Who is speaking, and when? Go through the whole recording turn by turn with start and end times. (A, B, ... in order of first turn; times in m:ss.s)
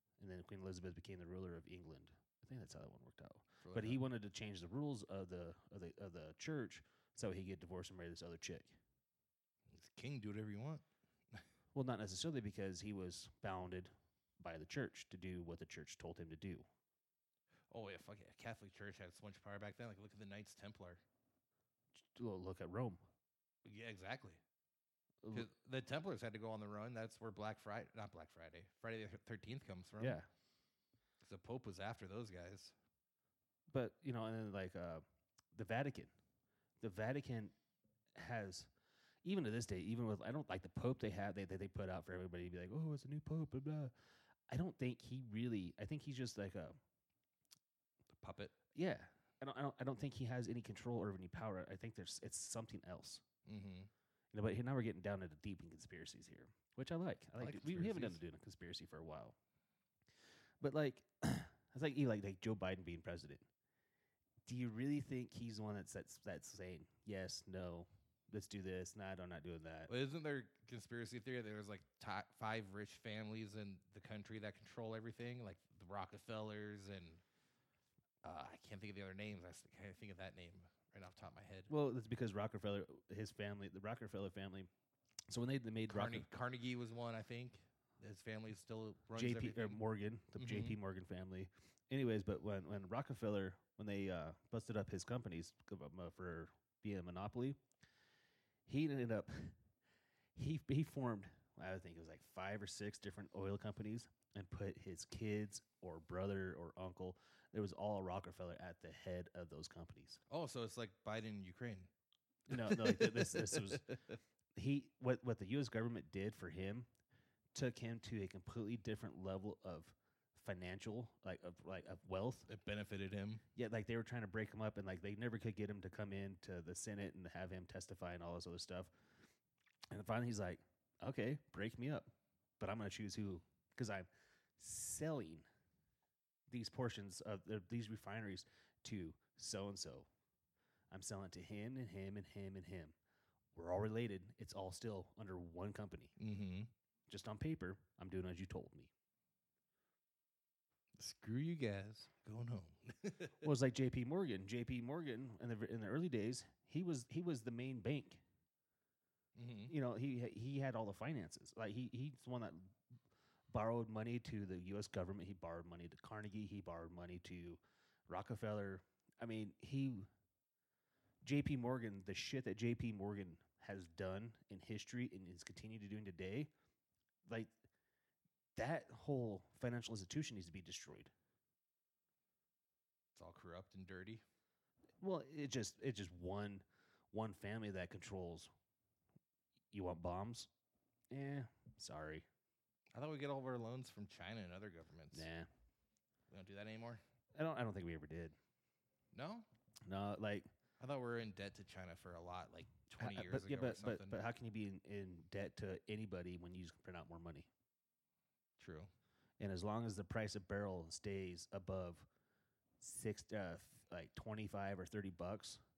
0:00.2-0:08.8 A
0:03.6-0:04.0 B
0:09.7-0:11.4 B
0:11.7-0:16.6 A
0:17.7-0:21.0 B
0:22.0-0:23.0 A
0:23.6-0:24.4 B
0:25.2-0:25.5 A
0:25.3-0:30.2 B
0:30.0-0:30.3 A
0:31.2-0:32.7 B
0:33.7-0:36.1 A
0:36.8-0:37.5 A
0:38.1-0:38.7 A
0:39.2-0:43.9 A
0:44.5-0:46.8 A
0:48.1-0:48.5 B
0:48.7-0:53.2 A
0:53.4-0:53.9 B
0:54.3-0:59.4 A
0:57.4-0:58.2 B
1:00.6-1:03.4 A
1:04.4-1:09.9 A
1:09.9-1:17.2 B
1:18.2-1:21.7 B
1:21.7-1:24.7 A
1:25.3-1:26.3 A
1:25.9-1:29.8 B
1:29.1-1:37.6 A
1:30.4-1:30.8 B
1:38.7-1:39.6 A
1:40.3-1:50.2 A
1:50.3-1:51.9 B
1:52.5-1:53.9 A
1:52.5-1:54.2 B
1:54.6-1:56.9 A
1:57.5-2:02.5 A
2:02.5-2:03.4 B
2:03.5-2:08.9 A
2:09.9-2:14.1 A
2:14.6-2:15.5 A
2:16.5-2:20.1 A
2:20.9-2:22.9 A
2:23.5-2:26.1 A
2:26.2-2:26.7 B
2:27.1-2:28.9 A
2:31.0-2:33.4 B
2:33.4-2:38.2 A
2:39.3-2:39.7 B
2:39.7-2:42.8 A
2:43.5-2:50.1 A
2:51.2-2:56.5 A
2:57.2-2:57.5 A
2:58.6-3:01.1 A
3:03.1-3:04.2 B
3:05.0-3:08.5 A
3:09.7-3:10.5 A
3:11.1-3:12.2 A
3:12.9-3:15.3 B
3:15.1-3:15.5 A
3:16.3-3:17.0 B
3:17.3-3:18.4 A
3:19.1-3:19.5 B
3:19.8-3:20.5 A
3:20.8-3:24.2 B
3:23.0-3:27.5 A
3:28.6-3:28.9 B
3:29.4-3:32.1 A
3:32.8-3:35.6 A